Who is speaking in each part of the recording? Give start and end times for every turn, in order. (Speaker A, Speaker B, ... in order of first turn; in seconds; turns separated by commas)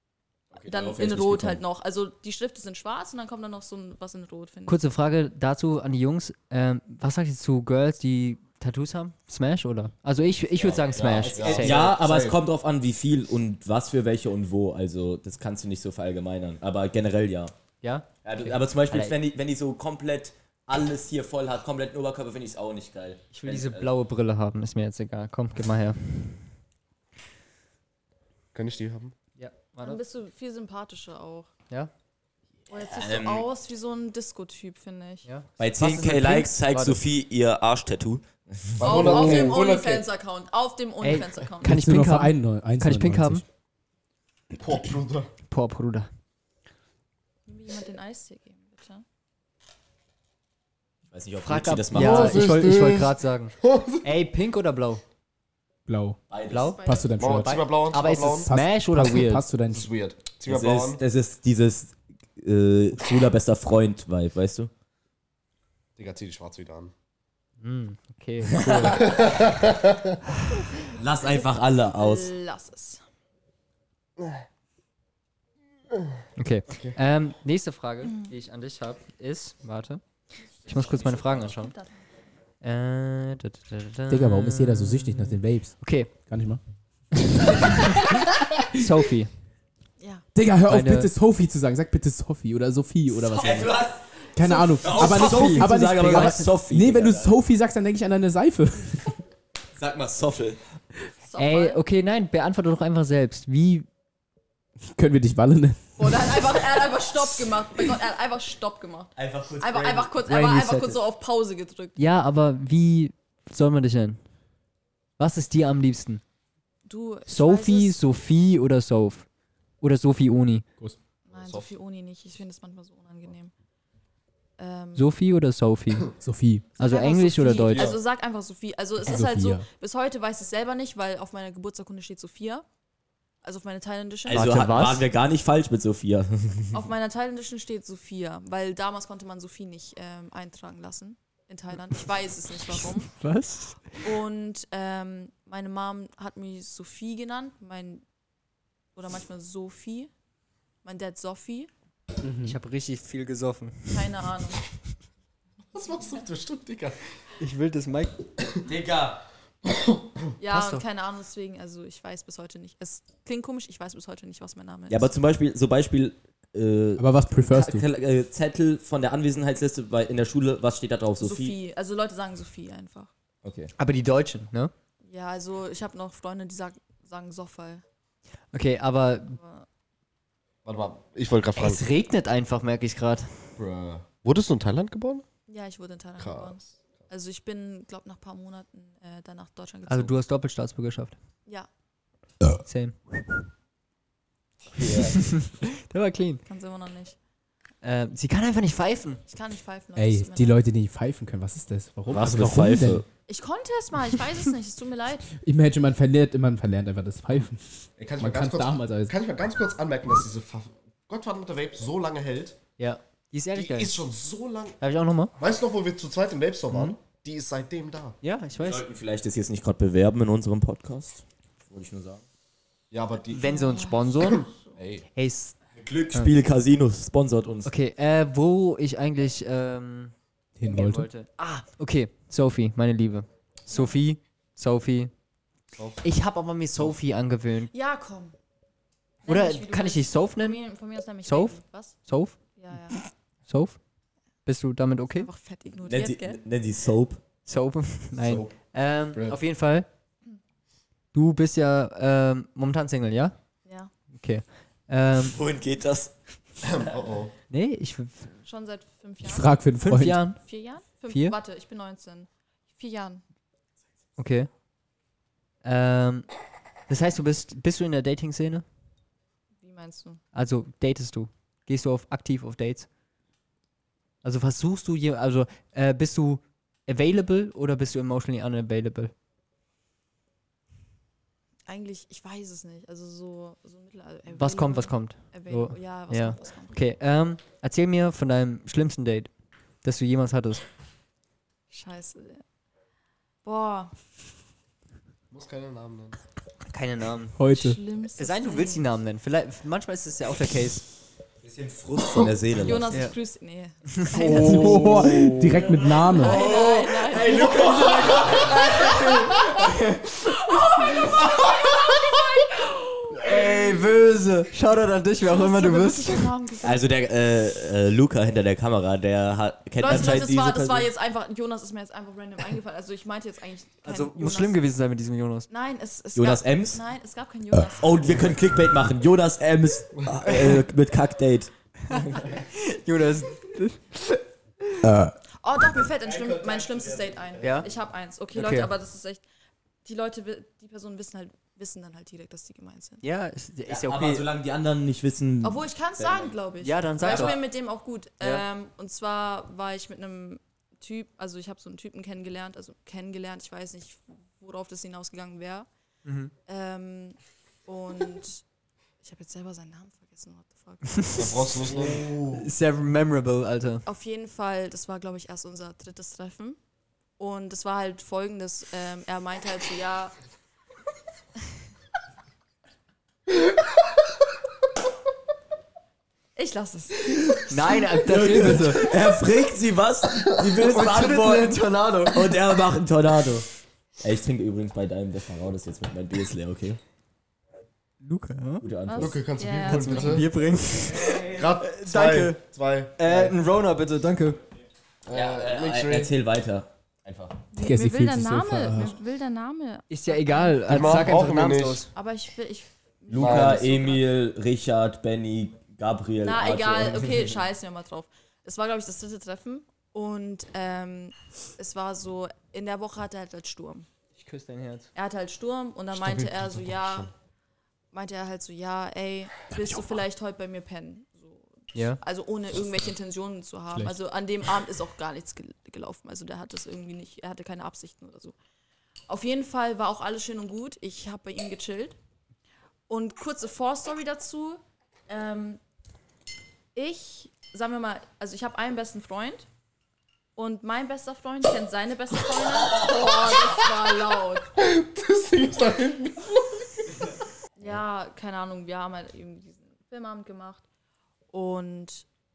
Speaker A: 0.5-1.6, Speaker B: 0.6-4.8, Speaker C: 4.7-11.9, Speaker A: 10.6-17.5, Speaker D: 11.2-12.4, Speaker C: 17.8-19.1, Speaker A: 18.2-23.9, Speaker C: 23.3-26.4, Speaker D: 28.5-29.1, Speaker C: 29.4-30.0, Speaker B: 29.8-31.5, Speaker B: 32.7-35.2, Speaker A: 32.7-33.5, Speaker C: 35.2-37.0, Speaker A: 35.6-39.2, Speaker D: 38.8-40.1, Speaker B: 38.8-41.8, Speaker C: 41.0-43.4, Speaker E: 41.6-43.4, Speaker D: 44.5-45.3, Speaker C: 45.5-46.1, Speaker B: 47.5-49.0, Speaker A: 51.1-52.5, Speaker C: 51.4-55.0, Speaker D: 51.9-54.0, Speaker E: 55.9-56.2, Speaker A: 56.3-56.8, Speaker C: 56.5-59.5, Speaker B: 56.7-57.1, Speaker E: 56.8-57.6, Speaker D: 57.1-58.5, Speaker E: 58.4-59.9, Speaker D: 59.7-61.0, Speaker A: 60.5-64.7, Speaker D: 66.0-66.9, Speaker C: 67.6-69.2, Speaker A: 68.5-69.2, Speaker D: 68.8-70.2, Speaker A: 70.9-72.3, Speaker B: 71.3-73.0, Speaker D: 74.2-74.4, Speaker C: 76.3-80.0, Speaker D: 76.7-77.0, Speaker C: 80.6-81.7, Speaker B: 80.7-82.0, Speaker C: 82.6-86.1, Speaker E: 84.1-86.6, Speaker C: 87.5-88.0, Speaker E: 88.1-88.6, Speaker C: 88.7-89.3, Speaker B: 90.0-90.2, Speaker E: 90.3-93.8, Speaker C: 90.7-91.1, Speaker A: 93.3-94.1, Speaker E: 94.3-99.1, Speaker B: 94.4-95.1, Speaker A: 94.8-97.3, Speaker C: 94.9-96.5, Speaker A: 99.8-100.6, Speaker B: 101.2-101.8, Speaker C: 101.4-103.9, Speaker E: 104.9-105.8, Speaker B: 106.0-112.0, Speaker A: 109.2-111.0, Speaker C: 112.0-114.2, Speaker C: 115.2-116.2, Speaker B: 116.8-118.0, Speaker C: 117.3-119.3, Speaker C: 119.8-120.7, Speaker B: 121.3-123.5, Speaker D: 121.3-121.7, Speaker B: 124.6-125.1, Speaker C: 125.0-126.1, Speaker E: 126.2-126.7, Speaker B: 126.8-132.6, Speaker C: 126.8-127.9, Speaker E: 129.1-129.7, Speaker B: 133.4-134.6, Speaker A: 134.3-136.8, Speaker C: 134.3-135.1, Speaker B: 136.7-143.2, Speaker C: 142.8-144.0, Speaker B: 144.0-148.0, Speaker B: 148.9-150.1, Speaker B: 150.8-151.7, Speaker E: 152.2-152.6, Speaker C: 152.4-154.2, Speaker B: 153.9-154.6, Speaker D: 155.7-157.0, Speaker C: 157.4-158.2, Speaker A: 158.7-159.2, Speaker D: 159.7-160.1, Speaker B: 160.4-165.1, Speaker C: 160.5-160.8, Speaker A: 164.9-171.6, Speaker E: 167.0-167.8, Speaker B: 171.2-173.1, Speaker A: 173.4-173.7, Speaker C: 173.8-174.7, Speaker B: 175.1-177.8, Speaker C: 178.5-179.4, Speaker B: 179.3-179.7, Speaker D: 180.6-181.8, Speaker C: 181.6-183.3, Speaker D: 183.6-185.2, Speaker B: 185.5-190.2, Speaker D: 186.2-186.6, Speaker C: 189.9-191.2, Speaker C: 192.6-193.0, Speaker A: 194.7-195.3, Speaker C: 195.2-196.4, Speaker B: 196.4-197.2, Speaker C: 197.8-199.2, Speaker B: 199.3-200.6, Speaker E: 199.9-203.0, Speaker A: 202.1-203.1, Speaker B: 203.3-205.3, Speaker E: 205.4-209.1, Speaker D: 208.0-212.6, Speaker C: 212.8-214.0, Speaker D: 213.5-214.8, Speaker C: 214.8-215.3, Speaker D: 215.4-218.2, Speaker C: 218.2-218.8, Speaker A: 218.6-222.2, Speaker D: 222.9-223.5, Speaker C: 223.3-224.5, Speaker B: 223.4-224.7, Speaker D: 224.2-225.0, Speaker C: 225.1-225.6, Speaker A: 225.8-227.7, Speaker C: 227.6-230.1, Speaker E: 230.6-231.1, Speaker C: 230.6-235.1, Speaker B: 233.7-234.0, Speaker D: 235.7-236.0, Speaker C: 236.0-237.7, Speaker B: 237.7-238.3, Speaker B: 239.2-243.0, Speaker C: 239.3-240.6, Speaker C: 241.2-242.4, Speaker C: 243.5-243.8, Speaker C: 244.4-245.3, Speaker B: 245.2-246.4, Speaker A: 245.8-247.2, Speaker C: 247.4-249.9, Speaker D: 248.2-248.5, Speaker D: 249.1-249.4, Speaker C: 251.1-253.3, Speaker B: 253.6-253.9, Speaker C: 254.1-255.4, Speaker A: 255.3-256.1, Speaker D: 256.6-257.3, Speaker C: 257.5-258.3, Speaker B: 258.4-259.6, Speaker E: 259.2-260.2, Speaker C: 259.8-260.4, Speaker B: 260.3-263.2, Speaker C: 261.1-261.4, Speaker C: 264.2-264.5, Speaker C: 265.6-266.3, Speaker C: 266.9-268.6, Speaker B: 269.6-270.2, Speaker C: 270.3-272.9, Speaker C: 274.2-279.1, Speaker B: 281.7-286.8, Speaker C: 284.3-290.6, Speaker B: 291.7-292.4, Speaker B: 293.4-293.9, Speaker D: 295.3-296.2, Speaker C: 296.7-297.4, Speaker E: 297.4-297.8, Speaker B: 297.5-298.9, Speaker C: 298.1-300.9, Speaker A: 301.4-302.9, Speaker B: 302.6-304.9, Speaker C: 303.9-304.4, Speaker D: 304.1-305.6, Speaker E: 304.3-306.4, Speaker A: 304.6-309.3, Speaker B: 306.1-309.6, Speaker C: 307.3-310.2, Speaker B: 310.5-313.3, Speaker C: 313.1-316.3, Speaker B: 315.2-316.8, Speaker A: 316.6-320.9, Speaker B: 319.8-324.6, Speaker C: 323.8-325.5, Speaker B: 325.5-328.3, Speaker A: 326.1-326.8, Speaker A: 327.8-332.3, Speaker C: 331.9-334.2, Speaker E: 334.8-335.1, Speaker B: 335.4-339.2, Speaker A: 336.4-336.9, Speaker C: 337.4-337.7, Speaker C: 338.3-338.7, Speaker B: 339.8-343.0, Speaker C: 343.0-344.2, Speaker A: 343.7-346.3, Speaker B: 345.4-355.7, Speaker C: 346.6-347.4, Speaker A: 347.0-347.3, Speaker C: 356.0-356.3, Speaker B: 356.4-358.4, Speaker B: 359.0-361.4, Speaker C: 360.9-363.8, Speaker D: 361.1-362.4, Speaker B: 363.8-366.6, Speaker B: 367.2-370.1, Speaker B: 376.4-377.4, Speaker C: 377.5-378.9, Speaker A: 378.1-383.5, Speaker D: 378.1-378.6, Speaker D: 380.1-382.4, Speaker A: 384.0-386.8, Speaker C: 388.0-388.6, Speaker A: 388.6-389.2, Speaker B: 388.9-390.2, Speaker D: 389.0-390.2, Speaker C: 389.6-392.4, Speaker D: 391.2-393.4, Speaker C: 393.0-394.4, Speaker D: 395.1-396.1, Speaker A: 395.1-397.4, Speaker B: 397.5-401.0, Speaker E: 397.6-398.9, Speaker C: 399.9-401.9, Speaker D: 400.6-401.9, Speaker B: 401.9-404.1, Speaker A: 403.1-407.4, Speaker D: 403.2-403.6, Speaker B: 406.2-413.9, Speaker C: 414.1-414.9, Speaker B: 414.9-417.1, Speaker D: 415.9-417.1, Speaker B: 417.9-428.4, Speaker C: 421.7-422.0, Speaker B: 429.1-432.0, Speaker B: 432.9-435.6, Speaker B: 436.7-439.5, Speaker B: 440.4-444.5, Speaker D: 444.6-446.6, Speaker B: 447.6-450.6, Speaker B: 451.3-452.1